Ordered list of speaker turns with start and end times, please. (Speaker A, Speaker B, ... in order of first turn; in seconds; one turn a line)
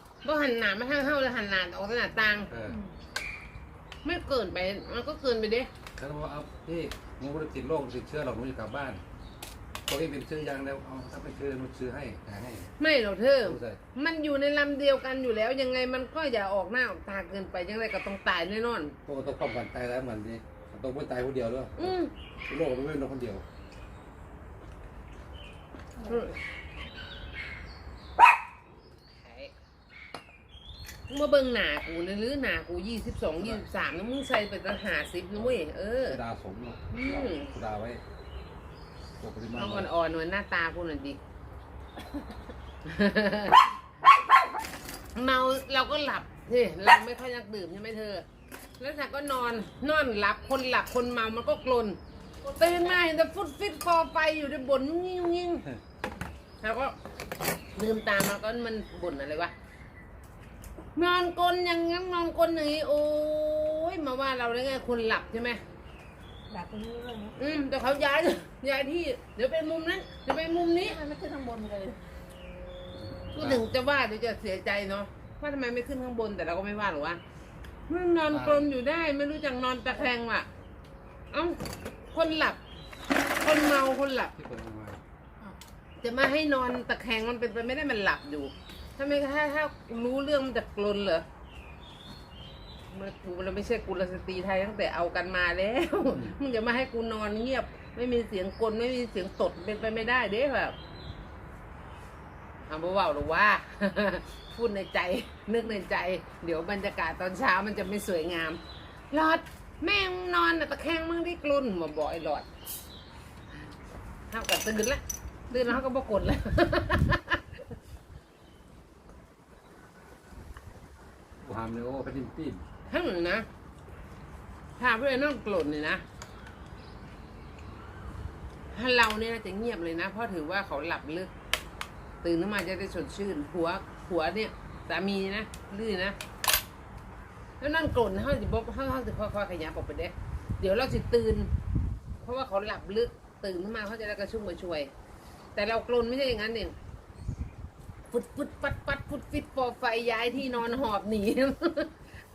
Speaker A: 0.2-2.5
Speaker B: 2.5-2.8
Speaker C: 2.7-2.9
Speaker A: 4.0-5.7
Speaker B: 6.0-9.0
Speaker B: 9.9-12.7
Speaker A: 12.8-18.9
Speaker B: 13.4-13.8
Speaker B: 19.1-23.4
Speaker A: 21.8-22.1
Speaker C: 26.0-26.3
Speaker A: 26.1-26.4
Speaker A: 29.1-29.5
Speaker A: 31.1-36.2
Speaker B: 35.3-38.0
Speaker A: 36.9-37.5
Speaker B: 39.2-39.9
Speaker A: 39.6-41.2
Speaker A: 42.8-43.7
Speaker A: 45.1-48.2
Speaker A: 48.8-52.0
Speaker C: 52.4-53.0
Speaker A: 52.6-55.6
Speaker A: 56.6-57.0
Speaker A: 57.8-59.5
Speaker A: 60.9-65.6
Speaker C: 66.5-67.4
Speaker A: 67.4-71.0
Speaker C: 70.8-72.0
Speaker B: 73.0-73.7
Speaker A: 73.3-77.2
Speaker A: 77.9-80.5
Speaker B: 78.3-78.7
Speaker A: 81.3-82.6
Speaker A: 83.4-84.3
Speaker B: 84.4-85.0
Speaker A: 86.0-91.2
Speaker A: 92.9-100.8
Speaker B: 96.1-96.4
Speaker A: 102.7-112.5
Speaker A: 114.3-117.6
Speaker B: 121.4-122.6
Speaker A: 122.9-123.5
Speaker A: 124.8-126.0
Speaker A: 128.7-131.3
Speaker A: 132.2-136.2
Speaker A: 137.6-141.5
Speaker A: 142.2-144.9
Speaker A: 145.6-146.8
Speaker A: 148.1-151.9